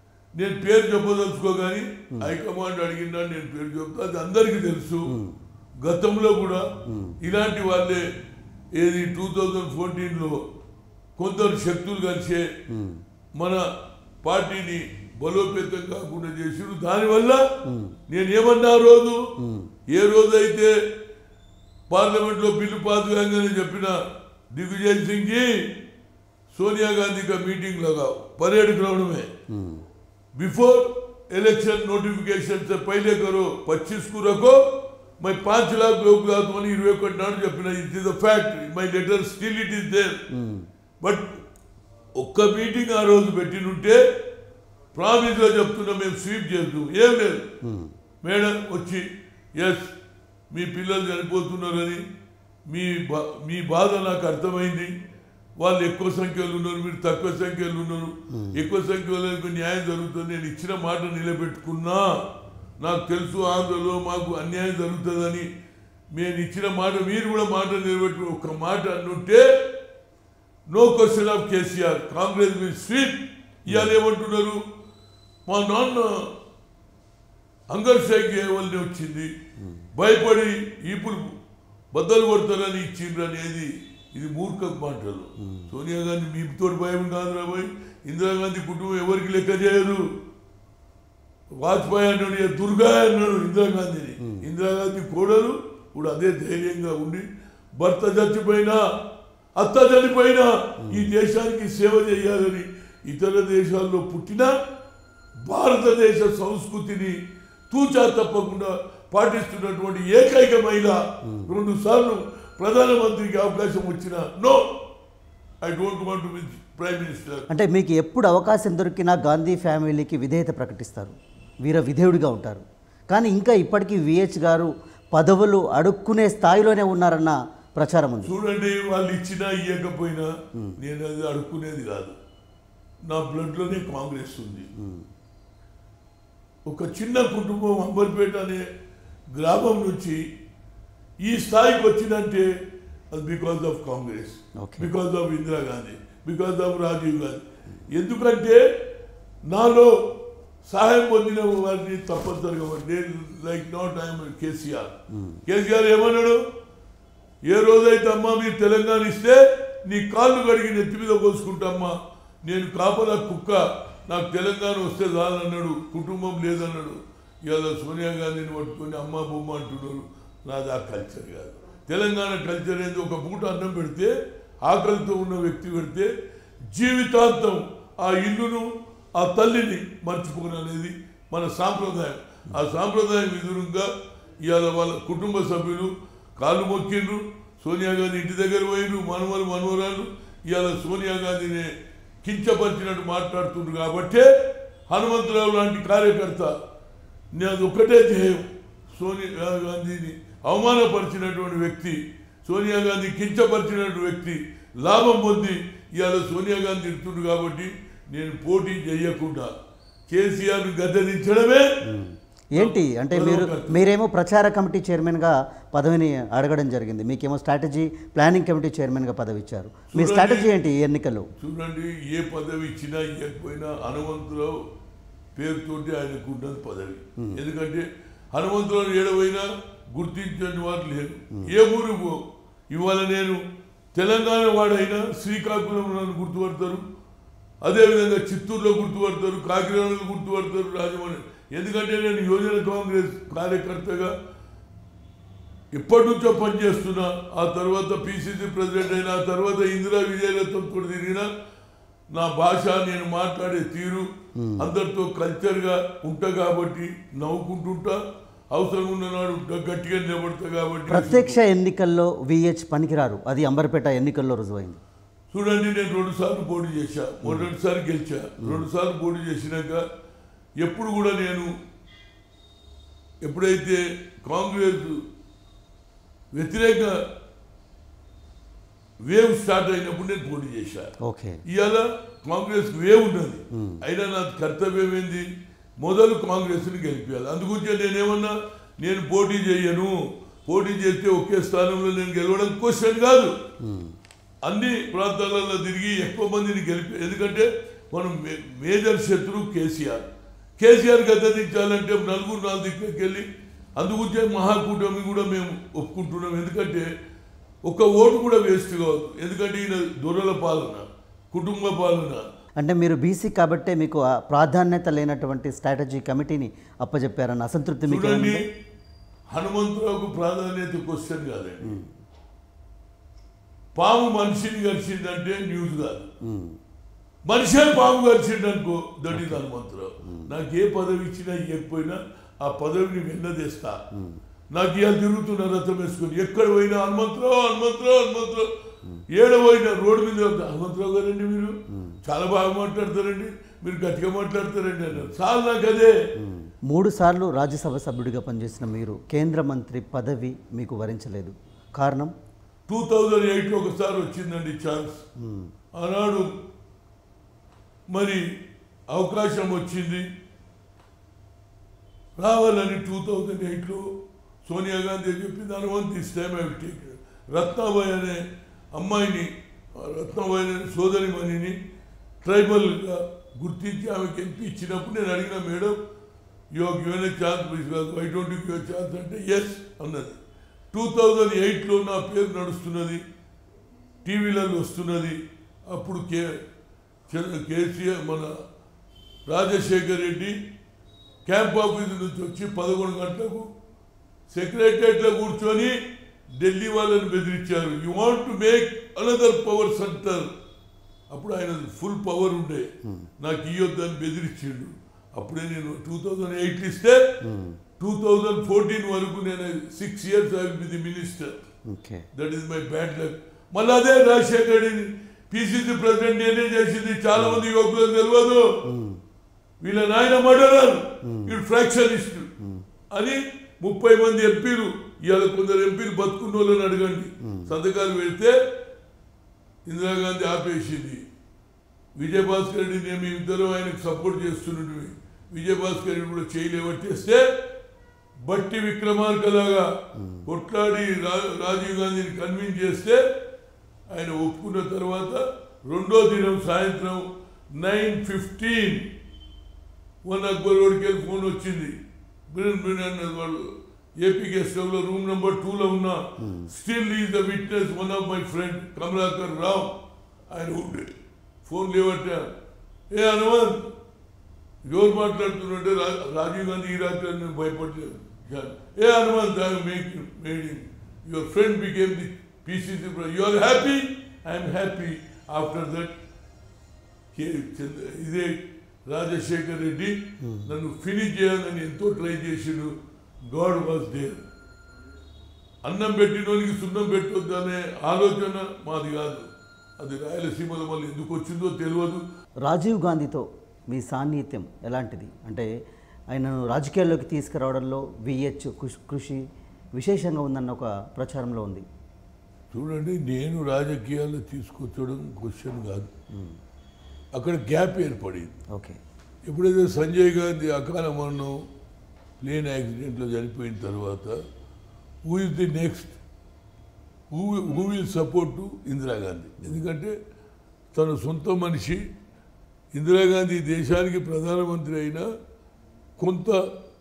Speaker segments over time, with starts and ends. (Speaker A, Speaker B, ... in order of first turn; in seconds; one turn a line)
Speaker A: 0.3-5.1
Speaker B: 5.1-5.4
Speaker A: 5.8-6.7
Speaker B: 6.9-7.2
Speaker A: 7.2-8.0
Speaker A: 8.8-10.4
Speaker A: 11.2-12.5
Speaker B: 12.7-13.0
Speaker A: 14.2-17.5
Speaker B: 17.6-18.0
Speaker A: 18.1-19.2
Speaker B: 19.4-19.7
Speaker A: 19.9-20.7
Speaker A: 21.9-24.0
Speaker A: 24.5-25.8
Speaker A: 26.5-29.3
Speaker B: 29.5-29.9
Speaker A: 30.4-40.2
Speaker B: 40.3-40.7
Speaker A: 41.0-41.4
Speaker A: 42.1-44.2
Speaker A: 45.0-47.5
Speaker B: 47.6-47.9
Speaker A: 48.2-49.9
Speaker A: 50.5-52.0
Speaker A: 52.7-54.9
Speaker A: 55.6-62.2
Speaker B: 58.3-58.6
Speaker A: 62.8-65.5
Speaker A: 66.1-69.7
Speaker A: 70.7-74.6
Speaker B: 73.7-73.9
Speaker A: 75.5-76.3
Speaker A: 77.7-79.3
Speaker B: 79.6-79.9
Speaker A: 80.0-81.3
Speaker A: 81.9-90.1
Speaker B: 85.4-85.7
Speaker A: 91.6-97.2
Speaker A: 97.8-98.8
Speaker A: 99.6-104.6
Speaker B: 100.8-101.1
Speaker A: 105.5-107.2
Speaker A: 107.7-114.8
Speaker B: 111.2-111.5
Speaker A: 115.6-117.5
Speaker B: 117.5-128.3
Speaker A: 128.2-132.1
Speaker A: 133.1-134.7
Speaker B: 134.8-135.1
Speaker A: 136.7-138.6
Speaker A: 139.3-140.2
Speaker A: 141.2-142.5
Speaker A: 143.1-148.7
Speaker B: 144.6-144.9
Speaker A: 149.5-156.4
Speaker B: 155.1-155.4
Speaker A: 157.5-176.1
Speaker A: 176.7-183.9
Speaker A: 184.4-191.7
Speaker A: 192.2-196.6
Speaker A: 197.3-209.5
Speaker A: 210.1-211.8
Speaker B: 211.8-221.3
Speaker A: 212.6-213.8
Speaker A: 219.9-220.5
Speaker A: 221.4-224.6
Speaker A: 225.4-233.4
Speaker A: 233.9-236.8
Speaker A: 237.6-244.1
Speaker A: 245.7-251.3
Speaker A: 252.1-261.4
Speaker B: 254.4-254.7
Speaker B: 260.9-264.8
Speaker A: 265.3-269.9
Speaker A: 270.6-271.5
Speaker A: 273.2-275.0
Speaker A: 276.3-277.0
Speaker A: 279.0-280.9
Speaker B: 281.0-281.4
Speaker A: 281.5-285.2
Speaker B: 283.5-283.8
Speaker A: 285.8-289.9
Speaker A: 290.5-293.4
Speaker B: 293.6-293.9
Speaker A: 294.4-300.1
Speaker A: 300.6-303.3
Speaker A: 303.8-306.9
Speaker A: 307.6-312.2
Speaker B: 312.6-318.4
Speaker A: 317.9-318.4
Speaker A: 319.3-321.8
Speaker B: 321.6-321.9
Speaker A: 323.8-326.1
Speaker B: 326.2-326.6
Speaker A: 327.3-333.8
Speaker B: 329.1-329.4
Speaker B: 333.9-334.2
Speaker A: 334.5-338.5
Speaker A: 339.1-345.9
Speaker B: 346.2-352.1
Speaker A: 352.7-355.1
Speaker B: 355.2-355.5
Speaker A: 355.8-356.3
Speaker A: 357.9-358.3
Speaker A: 358.9-360.1
Speaker A: 362.2-363.9
Speaker A: 364.4-371.6
Speaker A: 372.2-375.8
Speaker A: 376.5-380.2
Speaker A: 380.7-383.0
Speaker A: 384.0-385.2
Speaker A: 385.7-386.3
Speaker A: 387.1-388.3
Speaker A: 389.3-390.4
Speaker A: 391.3-393.5
Speaker A: 394.3-395.8
Speaker A: 396.4-400.3
Speaker A: 401.1-407.2
Speaker B: 407.2-407.6
Speaker A: 407.8-411.4
Speaker B: 411.6-412.1
Speaker A: 412.1-418.6
Speaker B: 417.2-417.4
Speaker B: 418.6-419.0
Speaker A: 419.6-422.3
Speaker B: 421.0-421.4
Speaker A: 422.9-428.4
Speaker B: 427.2-427.5
Speaker A: 429.7-431.0
Speaker A: 432.0-437.3
Speaker A: 438.2-443.1
Speaker B: 439.9-440.3
Speaker A: 443.9-448.9
Speaker A: 450.1-451.8
Speaker A: 452.3-459.7
Speaker B: 456.2-456.5
Speaker A: 460.3-460.9
Speaker A: 461.4-462.3
Speaker A: 462.9-463.7
Speaker A: 464.6-475.9
Speaker A: 477.1-482.7
Speaker B: 480.2-480.5
Speaker A: 483.3-484.2
Speaker A: 485.6-489.3
Speaker A: 489.8-492.0
Speaker B: 492.4-495.5
Speaker B: 496.1-499.2
Speaker B: 499.8-501.6
Speaker A: 502.5-505.9
Speaker B: 506.1-506.4
Speaker A: 507.1-508.3
Speaker B: 508.5-508.8
Speaker A: 509.3-511.4
Speaker A: 512.2-514.2
Speaker A: 515.0-516.0
Speaker A: 517.1-519.9
Speaker A: 520.7-521.8
Speaker A: 522.7-525.1
Speaker A: 526.0-526.5